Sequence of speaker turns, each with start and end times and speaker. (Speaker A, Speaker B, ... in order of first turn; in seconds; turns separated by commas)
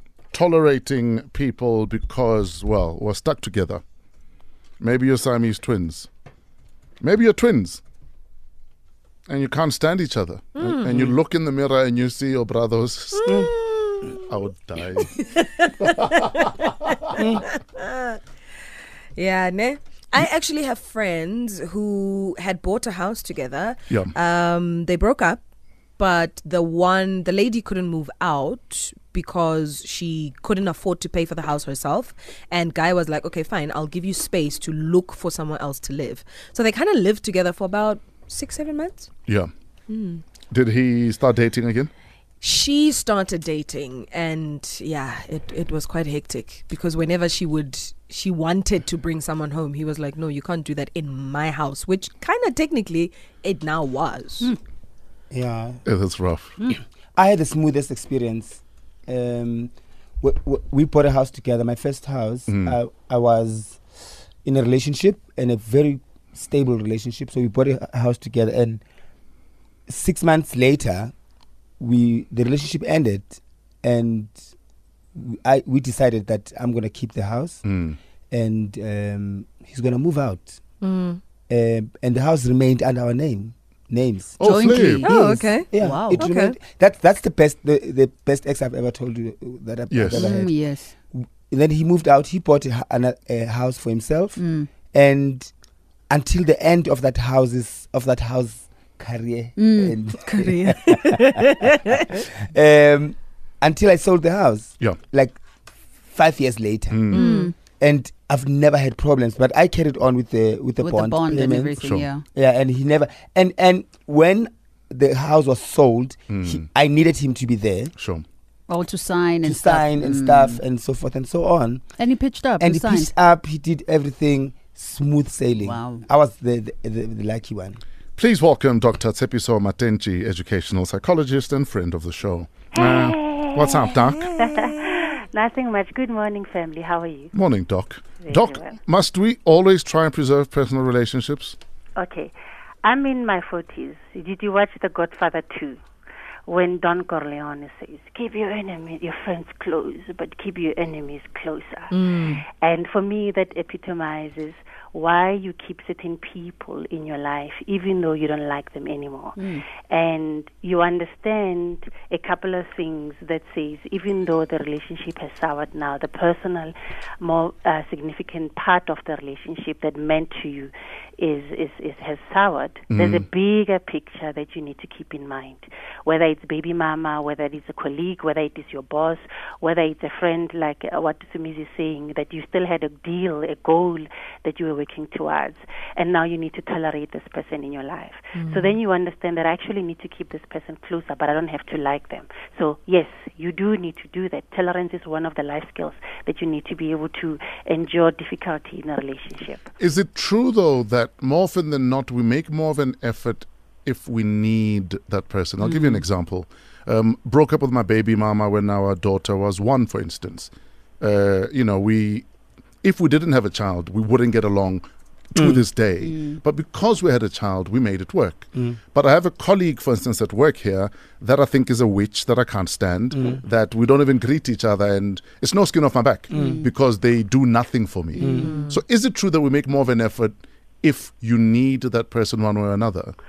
Speaker A: 0.3-3.8, Speaker A: 4.8-6.1, Speaker A: 7.0-7.8, Speaker A: 9.3-13.5, Speaker B: 10.6-11.1, Speaker B: 13.2-14.2, Speaker A: 14.2-15.2, Speaker B: 15.2-18.2, Speaker B: 19.1-25.4, Speaker B: 26.0-39.1, Speaker B: 39.9-40.2, Speaker A: 40.5-41.9, Speaker B: 42.4-54.5, Speaker C: 55.3-55.8, Speaker A: 55.9-56.5, Speaker C: 57.1-63.8, Speaker A: 62.5-62.7, Speaker C: 64.4-68.8, Speaker C: 69.9-71.1, Speaker C: 71.8-74.4, Speaker C: 75.1-77.6, Speaker A: 77.6-78.0, Speaker C: 78.3-80.6, Speaker B: 80.8-81.2, Speaker C: 81.5-95.5, Speaker A: 84.4-85.1, Speaker D: 84.4-85.3, Speaker B: 85.0-86.5, Speaker A: 89.9-90.3, Speaker D: 90.1-90.9, Speaker D: 94.3-94.7, Speaker C: 96.1-105.4, Speaker D: 99.5-100.0, Speaker B: 100.2-101.5, Speaker C: 106.1-117.9, Speaker A: 106.9-107.3, Speaker D: 107.1-107.5, Speaker B: 107.1-107.5, Speaker D: 110.8-112.2, Speaker A: 111.8-112.1, Speaker A: 116.3-116.6, Speaker A: 118.0-118.2, Speaker D: 118.7-120.6, Speaker C: 119.4-121.9, Speaker D: 122.0-123.1, Speaker C: 122.6-127.8, Speaker D: 125.5-126.0, Speaker A: 128.2-134.3, Speaker E: 132.7-137.3, Speaker B: 133.9-134.8, Speaker A: 137.3-141.6, Speaker E: 138.2-138.8, Speaker E: 141.9-145.8, Speaker E: 146.5-199.7, Speaker B: 151.9-152.4, Speaker A: 172.9-173.2, Speaker B: 188.3-188.7, Speaker A: 199.8-212.3, Speaker B: 205.6-206.0, Speaker A: 212.8-233.1, Speaker D: 216.0-216.4, Speaker C: 223.1-223.4, Speaker D: 226.3-226.7, Speaker C: 226.3-226.6, Speaker D: 228.2-228.6, Speaker C: 228.2-228.5, Speaker B: 228.3-228.8